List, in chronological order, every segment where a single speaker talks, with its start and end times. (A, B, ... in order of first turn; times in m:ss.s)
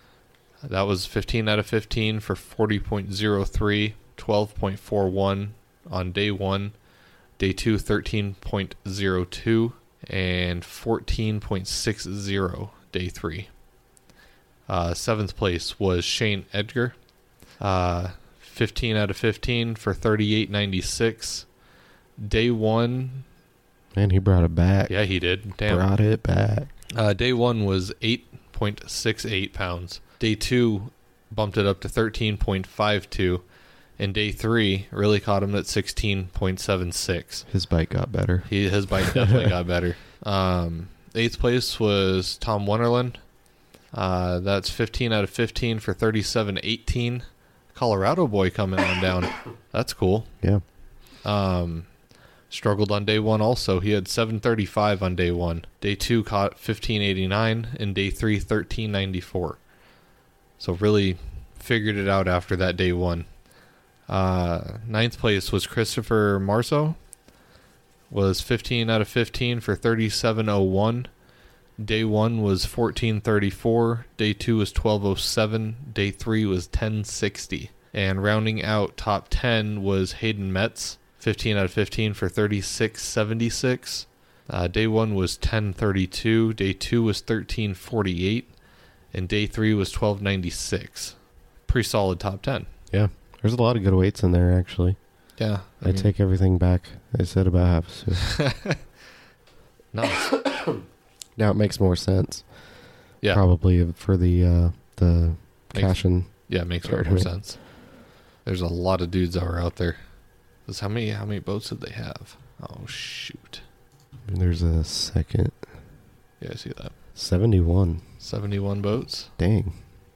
0:00.6-0:06.7 A
0:07.4-0:13.5 A
0:14.7-0:17.0 A
0:17.6-0:21.5 A
0:22.2-0:23.2 A
0:23.9-0:24.9 B
0:24.9-0:25.9 A
0:25.6-0:26.7 B
0:26.9-0:33.4 A
0:34.0-0:37.5 A
0:37.5-0:39.5 B
0:38.4-0:43.2 A
0:43.9-0:50.3 A
0:51.2-0:51.9 A
0:52.5-0:59.6 A
1:00.6-1:03.3 A
1:04.1-1:07.0 A
1:08.1-1:11.1 A
1:11.8-1:28.5 A
1:29.1-1:32.7 A
1:32.9-1:35.0 B
1:35.4-1:36.1 A
1:35.8-1:38.4 B
1:38.2-1:38.8 A
1:39.9-1:40.4 A
1:41.4-1:42.5 B
1:43.3-1:47.3 B
1:45.7-1:47.6 A
1:48.4-1:50.0 A
1:50.6-1:53.6 A
1:54.3-1:55.6 B
1:56.4-1:56.9 A
1:57.1-1:58.0 B
1:58.2-1:59.3 A
1:59.4-1:59.7 B